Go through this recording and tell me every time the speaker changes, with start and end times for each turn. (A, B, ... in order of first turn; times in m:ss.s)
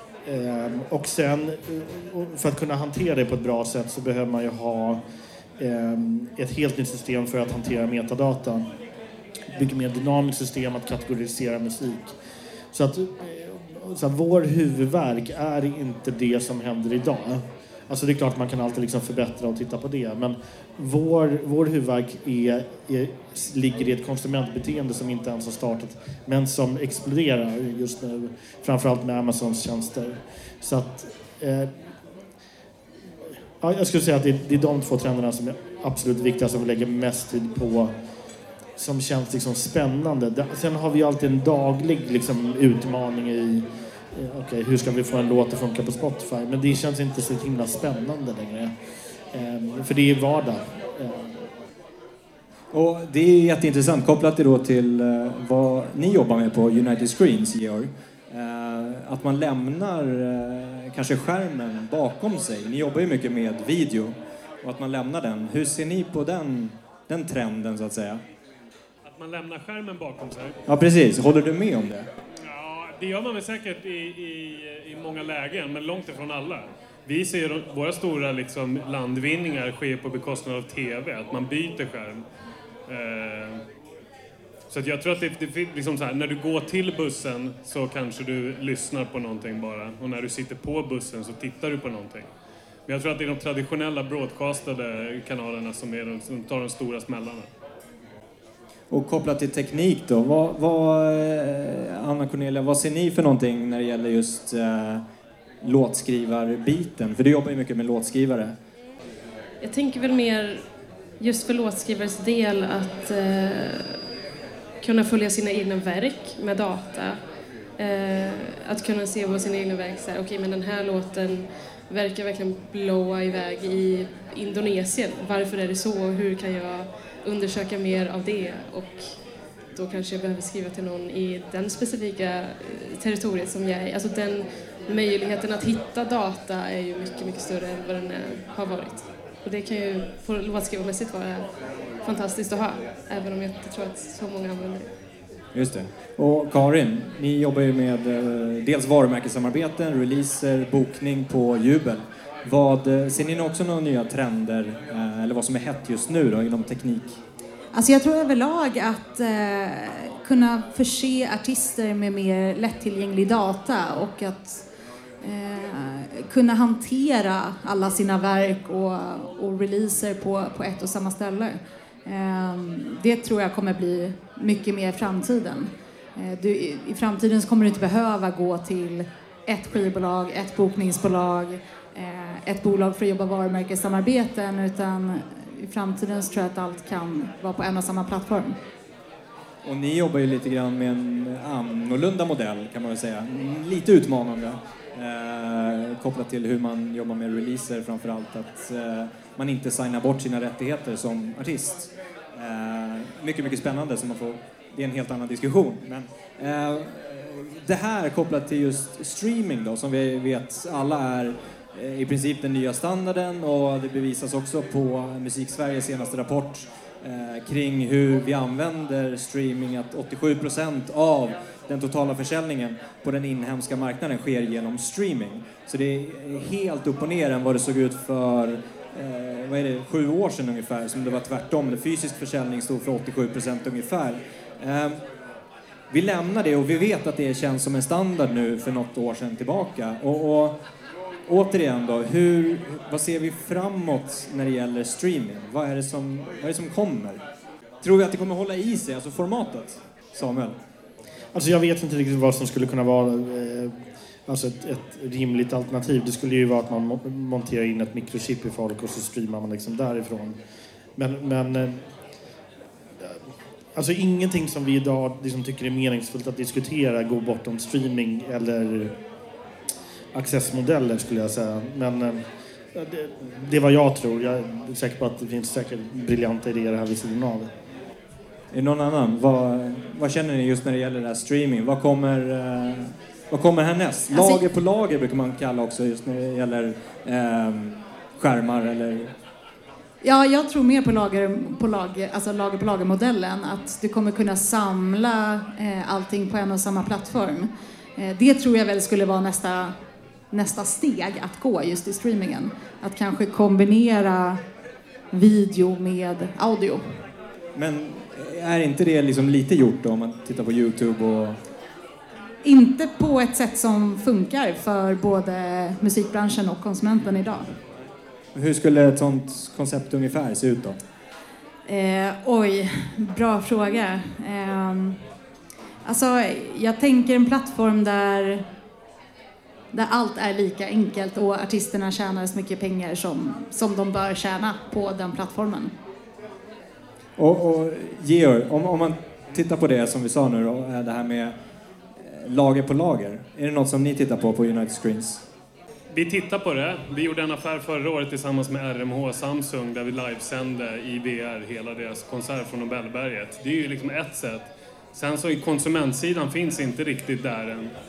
0:00.2-0:05.0 A
0:05.6-0:08.6 A
0:09.5-0:12.1 A
0:12.7-0:31.7 A
0:33.6-0:37.9 A
0:38.8-0:43.6 A
0:44.1-0:48.7 A
0:49.3-0:51.3 A
0:52.7-1:08.2 B
1:09.0-1:10.6 C
1:10.7-1:12.1 B
1:12.4-1:22.2 C
1:22.9-1:23.6 C
1:24.7-1:32.3 C
1:32.9-1:37.5 C
1:38.9-1:45.0 B
1:45.6-1:48.5 B
1:49.6-1:50.6 D
1:51.2-1:54.0 D
1:54.8-1:57.2 D
1:57.8-2:09.0 D
2:09.7-2:21.4 D
2:22.0-2:24.9 D
2:25.5-2:37.2 B
2:37.7-2:44.6 E
2:45.2-3:08.6 E
3:09.6-3:55.0 B
3:55.9-4:00.6 B
4:01.3-4:07.2 B
4:07.8-4:10.6 B
4:11.3-4:13.7 A
4:14.3-4:20.4 A
4:21.0-4:21.8 A
4:23.7-4:28.9 A
4:30.1-4:32.2 A
4:32.7-4:37.5 A
4:38.5-4:49.1 B
4:44.1-4:44.4 E
4:50.0-4:59.7 E
5:00.3-5:04.4 E
5:05.1-5:06.8 E
5:07.5-5:11.4 B
5:12.4-5:17.5 E
5:18.3-5:20.8 B
5:21.6-5:25.0 E
5:25.8-5:28.4 E
5:29.7-5:35.7 E
5:37.2-5:41.3 B
5:42.0-5:45.2 B
5:45.9-5:57.7 C